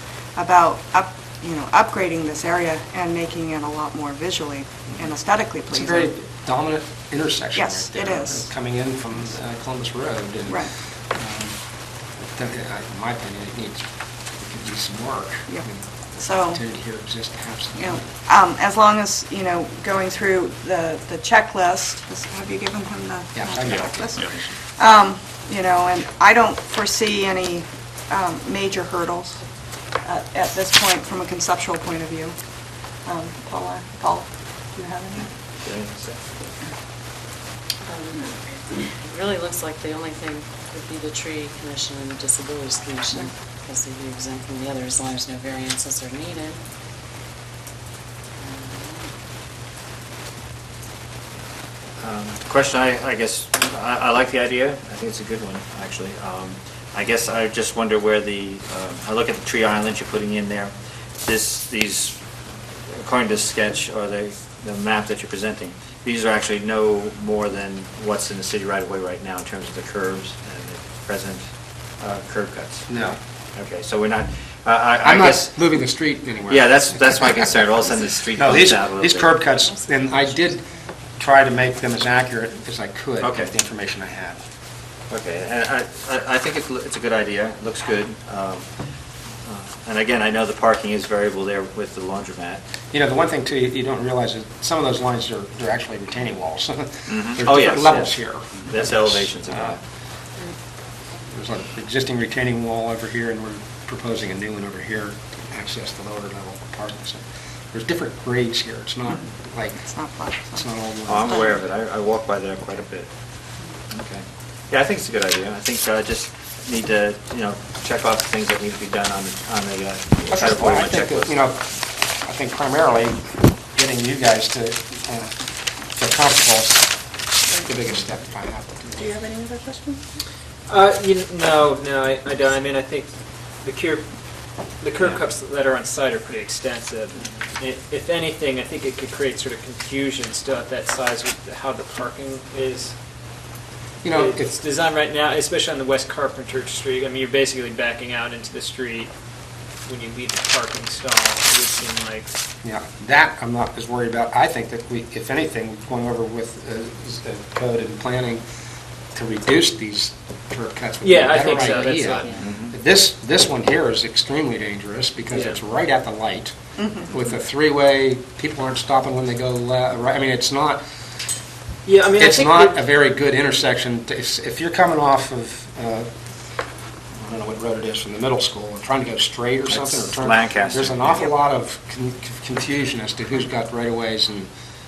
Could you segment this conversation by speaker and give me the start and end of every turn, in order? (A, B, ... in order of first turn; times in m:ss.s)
0:00.4-0:06.1 A
0:05.7-0:11.6 B
0:07.6-0:08.5 A
0:12.1-0:18.1 B
0:16.2-0:16.6 A
0:17.8-0:29.4 A
0:23.3-0:24.6 B
0:30.0-0:32.3 A
0:33.0-0:35.3 A
0:35.6-0:36.4 C
0:37.8-0:46.6 D
0:48.4-0:49.1 D
0:52.0-1:02.2 C
1:02.9-1:11.4 C
1:12.0-1:12.9 C
1:12.9-1:13.2 B
1:13.5-1:15.5 C
1:15.0-1:17.5 B
1:16.5-1:19.4 C
1:18.2-1:20.6 B
1:19.5-1:20.9 D
1:21.2-1:24.4 B
1:23.2-1:23.5 C
1:25.1-1:28.7 C
1:29.4-1:32.6 C
1:32.9-1:39.8 B
1:37.1-1:39.8 C
1:41.2-1:51.6 B
1:49.8-1:50.6 A
1:51.1-1:53.1 C
1:53.9-2:01.3 C
2:00.3-2:01.7 B
2:02.2-2:05.3 B
2:05.9-2:06.9 B
2:07.6-2:09.1 B
2:09.0-2:10.0 A
2:10.7-2:13.1 E
2:13.6-2:14.0 E
2:14.8-2:22.9 E
2:24.0-2:24.6 B
2:24.1-2:29.1 E
2:29.8-2:32.4 E
2:32.6-2:38.4 B
2:39.1-2:50.8 B
2:41.0-2:42.3 E
2:42.2-2:42.5 D
2:42.4-2:42.7 C
2:45.3-2:45.6 E
2:51.8-2:52.8 E
2:52.2-2:56.1 B
2:57.1-3:04.5 B
2:59.7-3:01.2 C